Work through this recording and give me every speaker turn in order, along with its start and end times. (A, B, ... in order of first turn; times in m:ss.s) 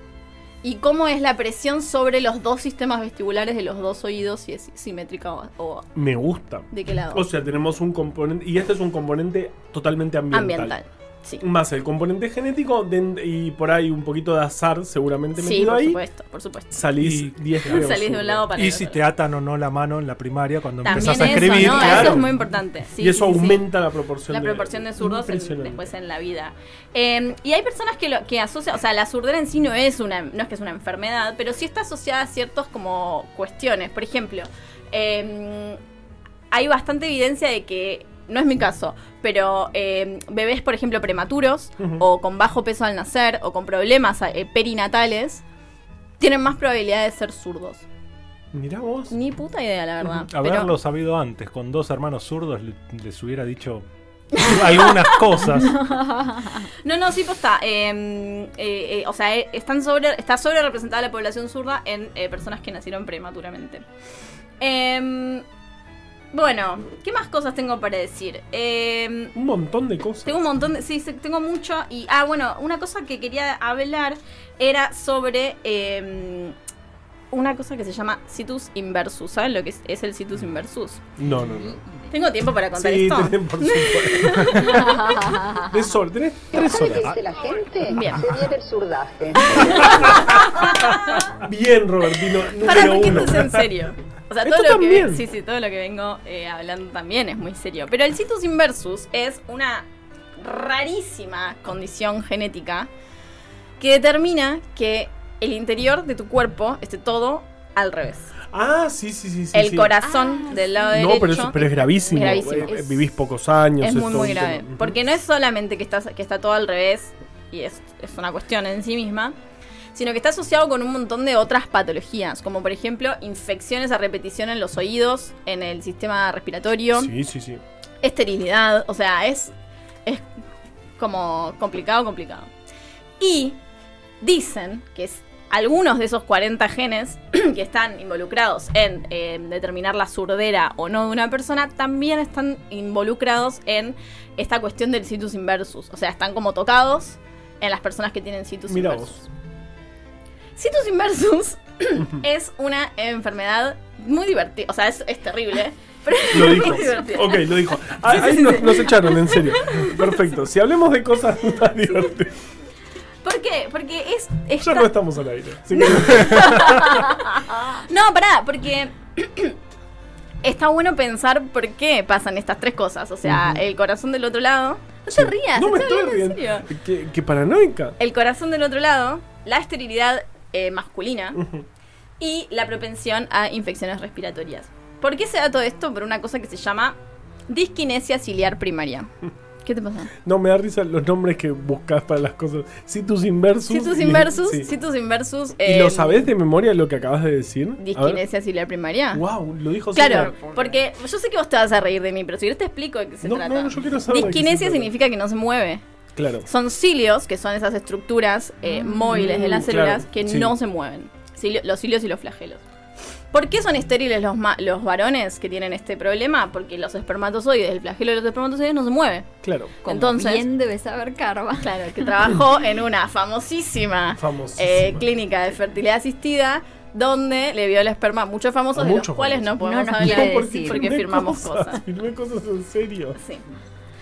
0:00.6-0:05.9 A
0:05.9-0:10.8 B
0:06.7-0:07.2 A
0:10.3-0:11.4 A
0:11.4-0:16.0 B
0:15.4-0:16.8 A
0:16.7-0:18.5 B
0:17.0-0:17.9 C
0:17.6-0:19.0 A
0:18.5-0:22.3 C
0:20.8-0:23.6 A
0:20.9-0:22.3 B
0:23.0-0:25.9 B
0:24.3-0:35.8 A
0:36.5-0:45.4 A
0:46.2-0:47.8 A
0:48.5-0:49.1 B
0:49.1-0:50.7 A
0:50.2-0:55.8 C
0:54.3-0:55.3 A
0:55.6-0:56.7 D
0:56.8-1:03.8 A
1:04.6-1:05.4 A
1:06.3-1:09.3 A
1:09.3-1:10.4 B
1:10.2-1:16.5 A
1:17.3-1:21.0 A
1:21.2-1:21.8 B
1:22.1-1:25.3 A
1:22.7-1:27.1 B
1:24.7-1:25.7 D
1:26.5-1:30.4 E
1:27.9-1:28.2 A
1:29.4-1:31.2 A
1:31.3-1:33.7 B
1:32.6-1:39.8 A
1:34.4-1:35.2 B
1:40.4-1:42.9 A
1:43.8-1:48.4 A
1:48.5-1:49.9 B
1:49.5-1:53.1 A
1:50.0-1:51.3 D
1:50.9-1:55.0 B
1:53.8-1:59.3 A
1:59.9-2:07.1 A
2:06.9-2:07.6 B
2:08.0-2:09.5 A
2:11.0-2:12.5 A
2:13.2-2:13.6 A
2:14.2-2:29.3 A
2:28.7-2:29.1 B
2:30.6-2:40.2 A
2:32.0-2:32.2 B
2:36.3-2:42.3 B
2:43.2-2:44.9 A
2:44.6-2:46.8 B
2:45.7-2:49.6 A
2:50.4-2:56.7 A
2:53.2-2:53.6 B
2:55.1-2:58.0 B
2:58.0-3:01.4 A
3:01.4-3:01.6 B
3:02.2-3:07.0 A
3:07.5-3:09.1 A
3:09.6-3:10.1 A
3:10.2-3:14.7 B
3:13.7-3:16.3 A
3:15.6-3:18.2 B
3:17.8-3:19.2 A
3:19.1-3:20.3 B
3:19.9-3:25.8 A
3:20.0-3:20.8 D
3:23.2-3:24.9 B
3:26.2-3:26.4 B
3:26.4-3:32.6 A
3:28.6-3:29.2 D
3:29.1-3:30.5 B
3:33.3-3:40.4 A
3:39.4-3:39.7 B
3:39.8-3:41.8 D
3:41.6-3:51.8 A
3:44.1-3:45.0 B
3:48.7-3:53.2 B
3:49.6-3:50.8 D
3:53.2-3:53.4 A